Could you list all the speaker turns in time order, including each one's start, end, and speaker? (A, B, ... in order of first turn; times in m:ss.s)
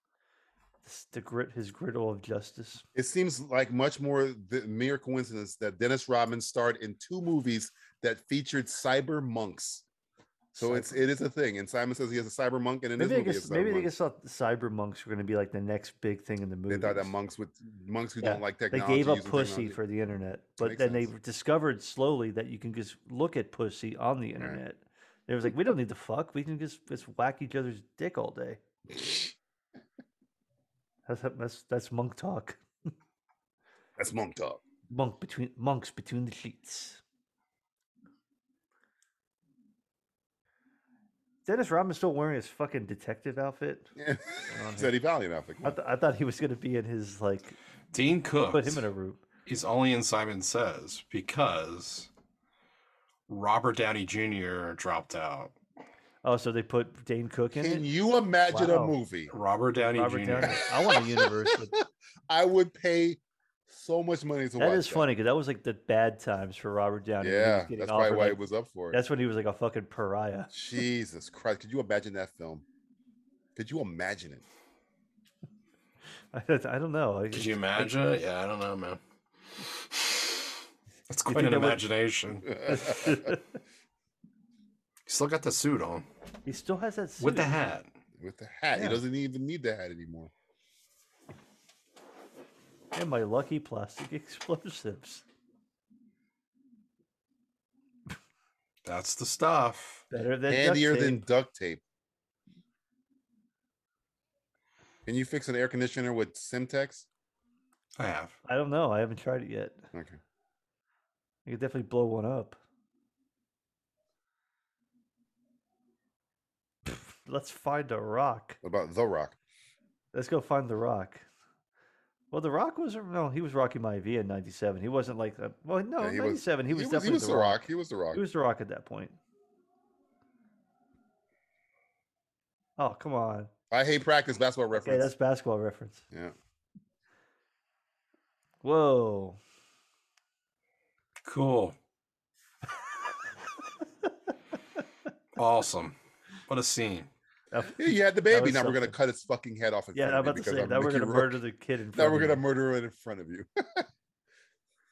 0:00.8-0:02.8 A
0:02.9-0:09.8 B
0:10.5-0:11.1 A
0:10.6-0:13.9 B
0:13.0-0:17.1 A
0:16.7-0:19.8 B
0:18.2-0:28.6 A
0:20.6-0:21.1 B
0:31.0-0:32.6 A
0:34.0-0:34.6 B
0:34.9-0:37.0 A
0:41.4-0:43.9 A
0:44.0-0:45.8 B
0:44.5-0:44.9 A
0:45.6-0:47.6 A
0:47.9-0:48.8 C
0:48.5-0:49.2 A
0:49.4-0:52.1 C
0:53.3-0:55.5 C
0:56.2-0:57.9 A
0:57.6-0:59.3 B
0:58.5-0:59.0 A
0:59.3-1:00.6 C
0:59.9-1:01.7 A
1:00.4-1:05.1 B
1:04.6-1:10.5 A
1:07.2-1:09.0 B
1:10.5-1:12.6 B
1:13.6-1:14.4 B
1:16.3-1:18.0 A
1:17.3-1:19.0 C
1:19.9-1:20.2 C
1:21.1-1:22.8 C
1:21.3-1:21.8 A
1:22.6-1:23.2 B
1:22.6-1:23.4 A
1:25.1-1:26.1 C
1:26.4-1:27.6 A
1:27.2-1:27.9 C
1:28.2-1:30.3 B
1:28.7-1:29.0 A
1:32.9-1:35.2 A
1:38.8-1:40.0 C
1:40.1-1:41.2 A
1:40.5-1:41.8 B
1:45.0-1:47.1 B
1:48.0-1:48.3 C
1:48.4-1:49.8 A
1:49.9-1:50.2 B
1:51.4-1:52.6 A
1:56.8-1:58.6 A
1:58.6-1:59.4 B
2:00.1-2:01.2 A
2:02.3-2:09.2 A
2:06.0-2:08.2 B
2:12.8-2:13.5 A
2:13.7-2:15.1 B
2:14.7-2:16.0 A
2:18.6-2:19.4 A
2:21.2-2:21.8 C
2:25.4-2:26.0 C
2:26.5-2:27.1 C
2:27.5-2:28.9 A
2:27.8-2:31.4 B
2:29.9-2:32.4 A
2:31.9-2:33.8 B